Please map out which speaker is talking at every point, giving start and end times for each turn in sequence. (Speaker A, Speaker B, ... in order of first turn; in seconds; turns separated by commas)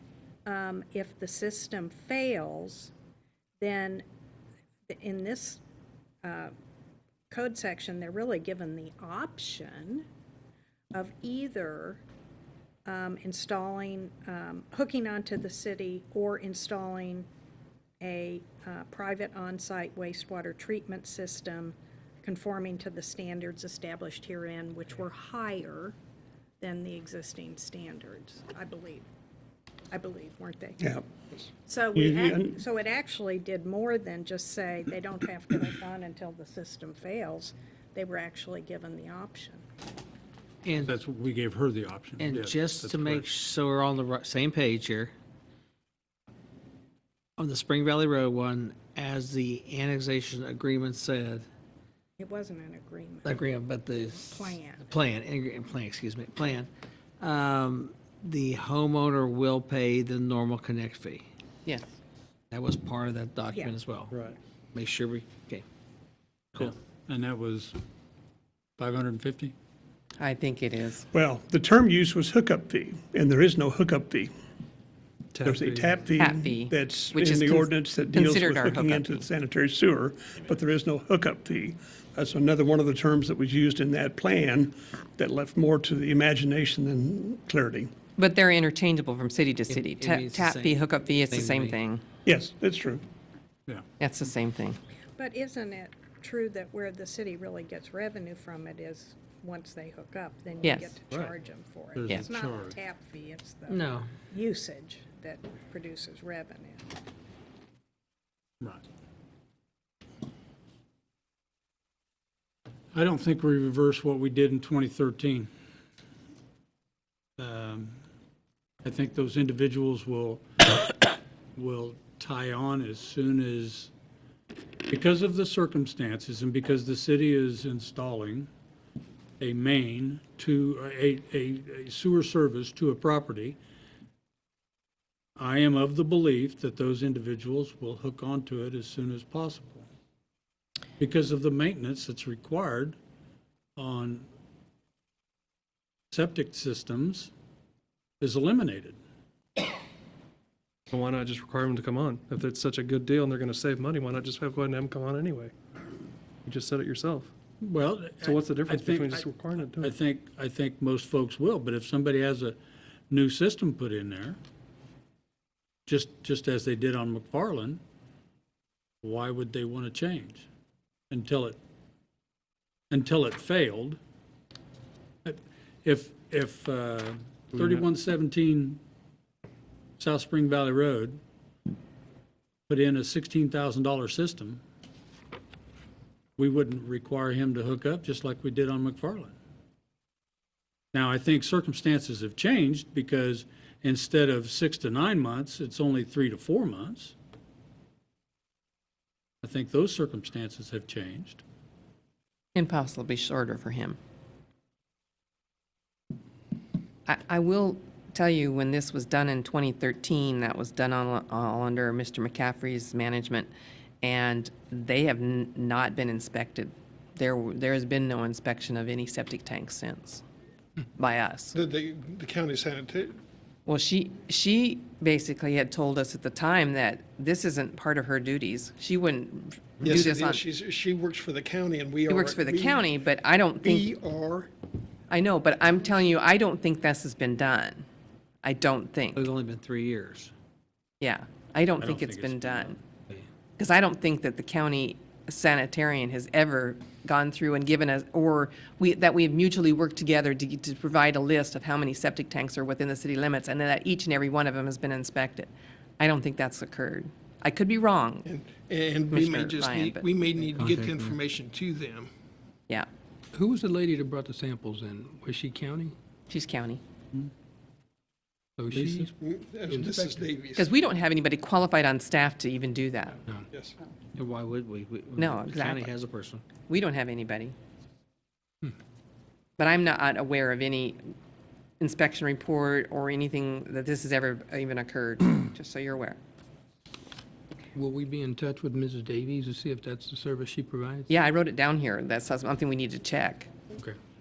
Speaker A: 0.5-2.9, Speaker A: 3.6-4.0, Speaker A: 4.9-5.6, Speaker A: 6.2-6.5, Speaker A: 7.3-10.1, Speaker A: 10.9-12.0, Speaker A: 12.9-17.3, Speaker A: 18.0-26.0, Speaker A: 26.6-29.1, Speaker A: 29.9-30.9, Speaker A: 31.6-39.6, Speaker B: 31.9-32.6, Speaker C: 40.6-40.9, Speaker D: 40.9-43.3, Speaker C: 42.2-45.1, Speaker C: 47.4-51.5, Speaker A: 52.2-53.4, Speaker C: 53.3-61.2, Speaker A: 54.2-54.9, Speaker C: 62.5-64.2, Speaker E: 64.1-64.4, Speaker C: 64.7-65.7, Speaker D: 66.5-67.8, Speaker D: 68.8-69.5, Speaker F: 70.2-71.1, Speaker B: 71.1-74.3, Speaker E: 75.3-76.0, Speaker B: 75.5-87.9, Speaker F: 76.2-79.3, Speaker F: 88.2-92.0, Speaker C: 89.7-90.8, Speaker C: 91.3-91.8, Speaker B: 92.3-93.0, Speaker F: 94.0-94.8, Speaker A: 95.2-106.9, Speaker F: 100.6-101.0, Speaker D: 102.0-102.8, Speaker C: 103.7-104.1, Speaker D: 112.9-115.5, Speaker D: 117.4-118.0, Speaker D: 118.8-120.5, Speaker D: 121.5-123.9, Speaker D: 124.9-128.5, Speaker D: 129.4-133.6, Speaker D: 135.4-139.9, Speaker D: 141.0-143.0, Speaker D: 143.8-144.3, Speaker D: 146.1-147.3, Speaker D: 148.2-149.0, Speaker E: 150.9-155.5, Speaker E: 156.5-157.3, Speaker D: 157.6-162.6, Speaker E: 158.2-160.0, Speaker D: 163.1-164.4, Speaker D: 165.9-167.8, Speaker D: 169.0-170.5, Speaker D: 171.1-171.6, Speaker D: 172.9-174.0, Speaker D: 175.2-178.8, Speaker E: 177.5-177.8, Speaker D: 180.0-181.2, Speaker D: 182.7-184.6, Speaker D: 186.4-189.3, Speaker D: 190.9-197.2, Speaker D: 199.4-201.4, Speaker F: 202.6-204.0, Speaker F: 207.1-213.5, Speaker F: 214.0-220.2, Speaker F: 221.0-221.6, Speaker G: 221.5-223.2, Speaker F: 223.7-230.4, Speaker G: 229.8-232.9, Speaker F: 232.1-233.9, Speaker G: 233.6-234.5, Speaker F: 235.1-237.8, Speaker F: 238.4-239.3, Speaker C: 239.2-240.3, Speaker F: 241.0-242.8, Speaker D: 241.8-242.8, Speaker F: 243.6-258.3, Speaker G: 258.2-262.1, Speaker F: 259.1-260.1, Speaker C: 260.6-261.1, Speaker H: 263.3-265.9, Speaker F: 266.3-266.8, Speaker H: 268.6-269.1, Speaker D: 268.7-269.1, Speaker G: 269.2-270.7, Speaker H: 269.7-270.3, Speaker F: 270.6-273.2, Speaker C: 274.1-276.4, Speaker F: 275.2-275.9, Speaker F: 276.6-277.6, Speaker F: 279.6-281.0, Speaker F: 281.8-286.2, Speaker H: 287.8-291.1, Speaker F: 291.1-293.5